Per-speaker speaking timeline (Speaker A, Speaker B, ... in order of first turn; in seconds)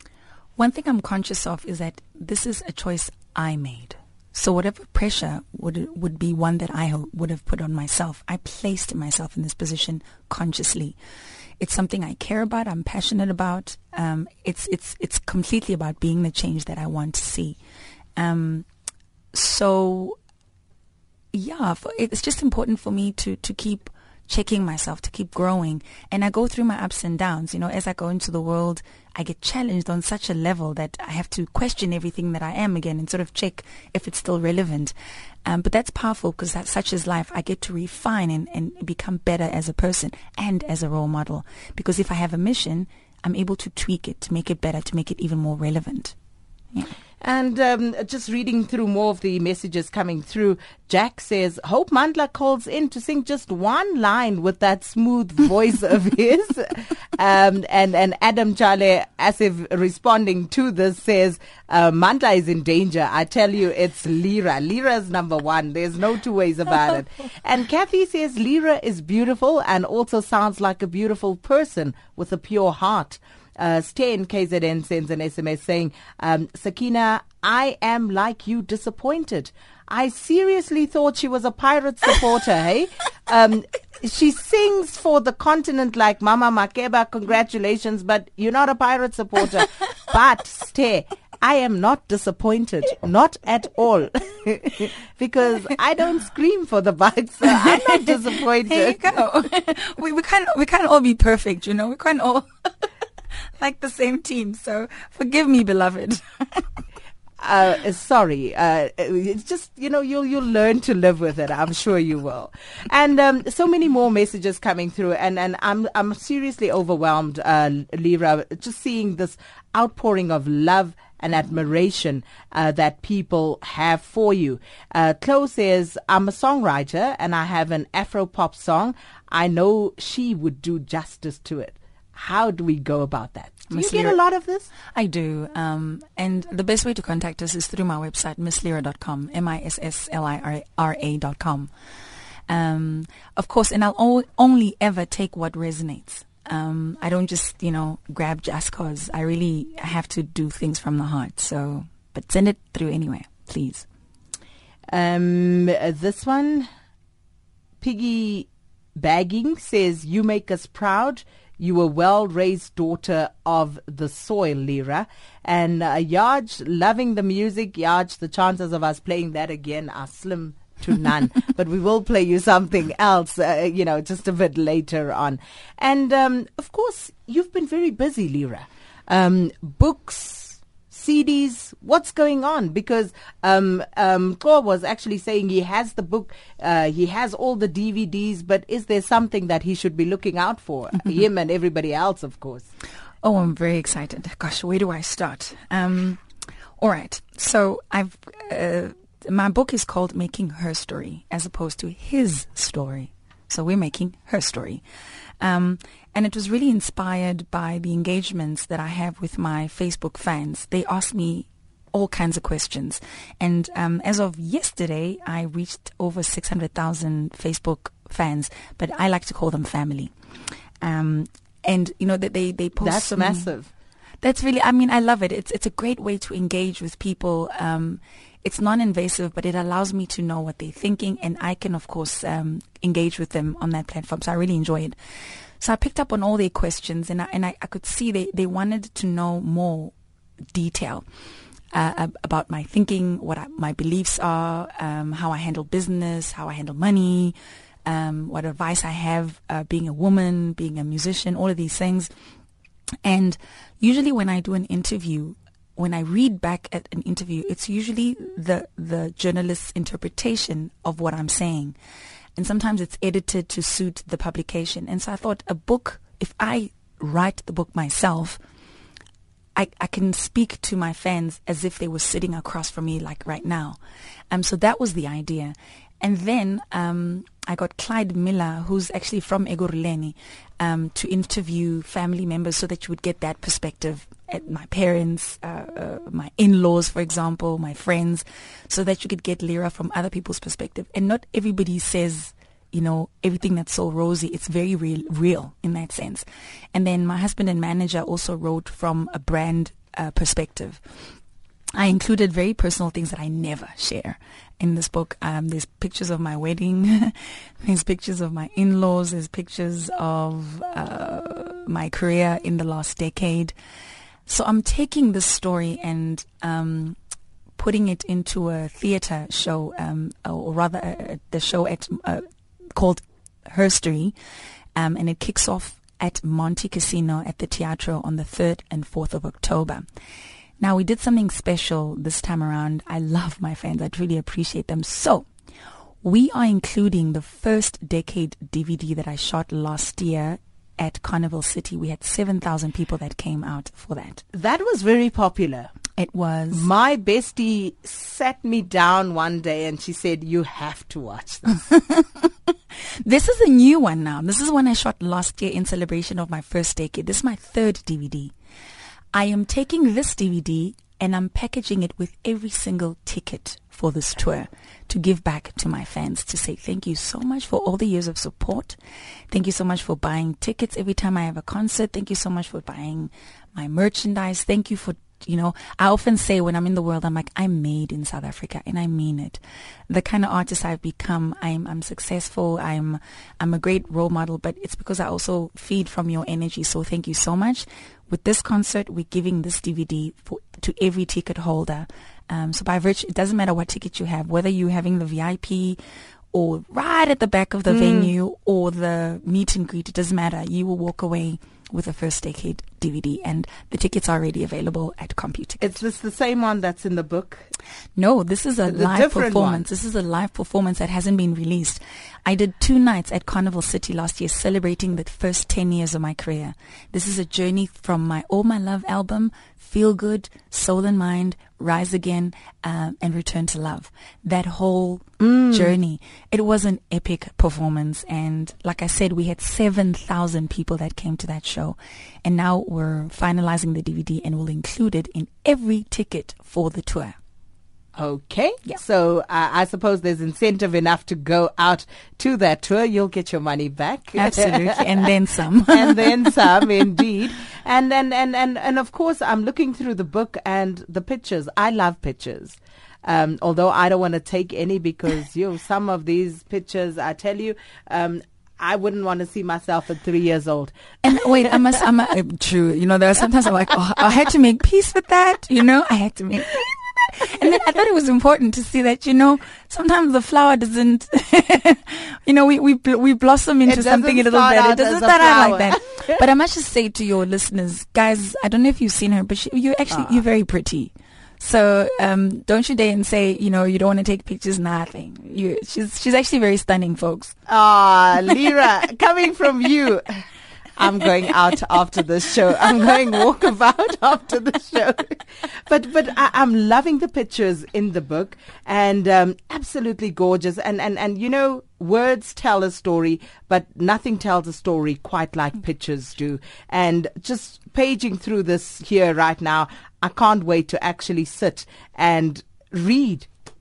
Speaker A: 0.6-11.0, 11.6-17.6, 18.1-18.6, 19.3-20.2, 21.3-34.9, 35.4-46.1, 97.5-102.7, 103.6-106.7, 133.7-134.2, 134.9-141.7, 142.5-153.8, 193.2-196.2, 196.8-204.8, 205.4-220.1, 220.8-223.5, 224.2-234.9, 235.6-239.9, 240.5-241.0, 241.7-252.1, 253.0-261.8, 262.4-268.4, 269.5-273.8, 274.3-300.8, 301.7-313.5, 314.3-317.0, 317.6-324.1, 324.7-329.9, 330.6-335.3, 336.0-344.2, 346.0-346.6, 351.6-358.3, 359.1-368.8, 369.3-395.8, 396.3-405.7, 407.9-437.1, 444.1-447.0, 461.0-487.4
Speaker B: 47.2-99.0, 107.4-134.7, 154.9-156.7, 157.8-192.7, 222.8-223.7, 344.3-345.7, 346.5-351.6, 397.7-398.1, 405.6-407.4, 408.7-409.6, 425.2-425.7, 438.0-444.9, 445.7-460.7, 473.6-476.2, 487.5-490.2, 490.8-513.3